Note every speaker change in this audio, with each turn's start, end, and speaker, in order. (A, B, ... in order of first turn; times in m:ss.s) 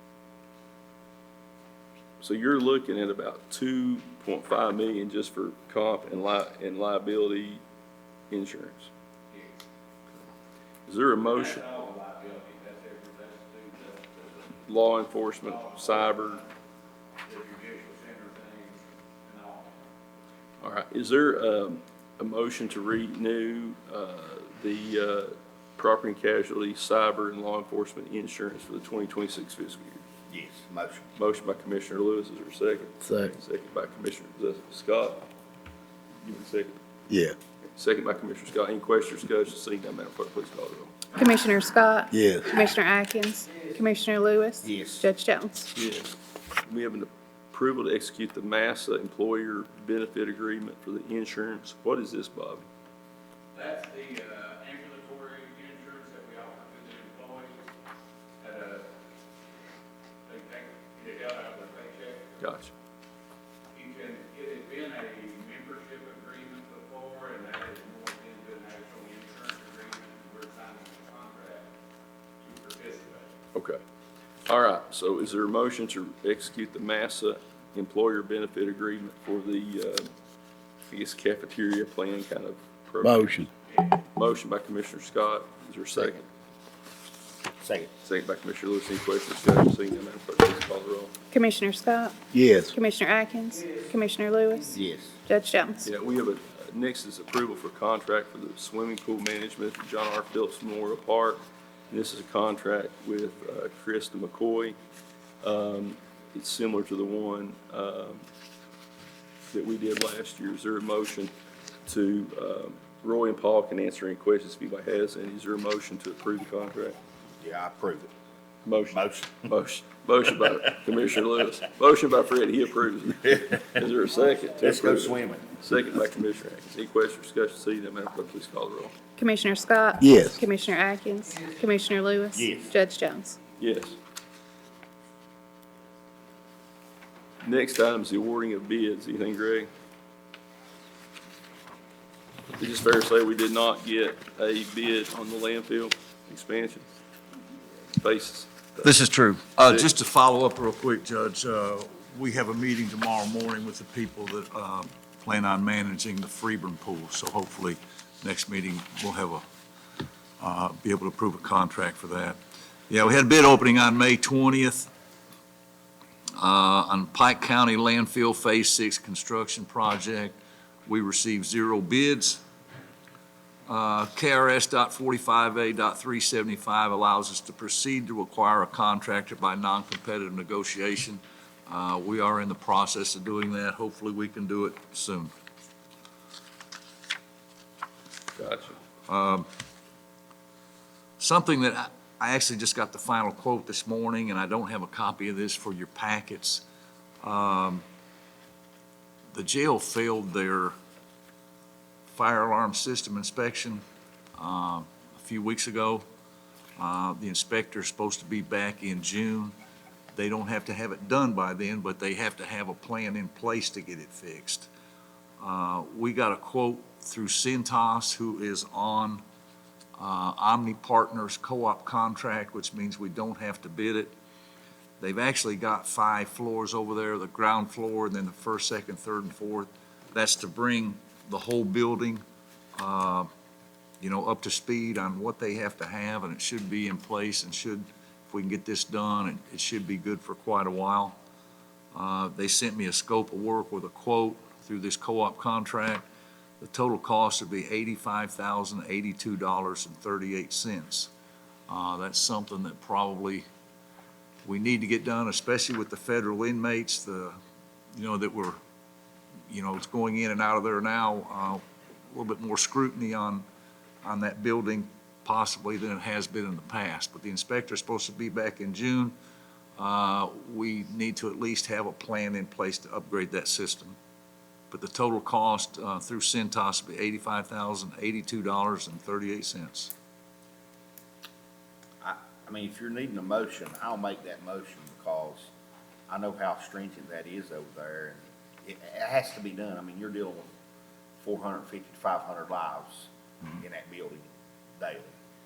0:02.2-0:07.6 A
0:08.3-0:08.9 A
0:10.9-0:11.6 A
0:11.3-0:14.3 B
0:14.7-0:16.4 A
0:15.6-0:16.0 B
0:17.3-0:19.7 B
0:20.6-0:30.0 A
0:30.3-0:31.1 C
0:31.2-0:35.3 A
0:33.0-0:33.3 D
0:36.2-0:36.8 A
0:37.1-0:37.4 D
0:37.8-0:40.9 A
0:41.2-0:45.7 E
0:42.1-0:42.5 D
0:44.6-0:45.1 C
0:45.8-0:52.6 A
0:53.6-0:57.5 B
0:58.4-0:58.8 B
1:00.3-1:02.4 B
1:02.4-1:02.7 A
1:03.8-1:11.7 B
1:12.5-1:13.3 B
1:13.5-1:13.8 A
1:14.5-1:20.1 A
1:20.8-1:23.4 A
1:23.0-1:23.5 D
1:24.1-1:26.3 A
1:27.6-1:27.9 C
1:28.0-1:31.1 A
1:31.3-1:35.9 E
1:32.3-1:32.7 D
1:34.7-1:35.2 C
1:35.8-1:44.8 A
1:45.4-1:48.2 A
1:49.5-1:51.3 A
1:51.9-1:57.0 A
1:57.4-1:58.1 C
1:58.6-2:08.9 A
1:58.9-1:59.4 C
2:04.6-2:05.4 C
2:09.2-2:13.4 E
2:10.0-2:10.4 D
2:12.4-2:12.7 C
2:13.6-2:14.0 A
2:17.4-2:19.7 A
2:22.6-2:26.9 A
2:27.9-2:28.9 A
2:28.8-2:39.4 F
2:40.4-2:42.4 F
2:42.9-2:44.9 F
2:46.4-2:52.4 F
2:53.7-3:05.3 F
3:08.4-3:08.8 A
3:09.1-3:09.5 F
3:11.2-3:16.6 F
3:17.2-3:17.8 F
3:19.3-3:20.7 F
3:22.1-3:23.8 F
3:24.4-3:26.0 F
3:26.8-3:29.5 F
3:30.1-3:34.7 F
3:35.4-3:39.2 F
3:40.0-3:44.1 F
3:45.0-3:52.2 F
3:52.8-3:53.3 F
3:54.0-4:01.2 F
4:01.9-4:06.0 F
4:06.6-4:11.1 F
4:11.7-4:13.4 F
4:14.4-4:17.4 F
4:18.0-4:18.6 F
4:19.5-4:23.4 F
4:24.0-4:29.1 F
4:29.8-4:34.0 F
4:34.7-4:39.9 F
4:42.0-4:45.5 C
4:46.1-4:50.5 C
4:51.2-4:54.3 C
4:54.8-4:55.1 C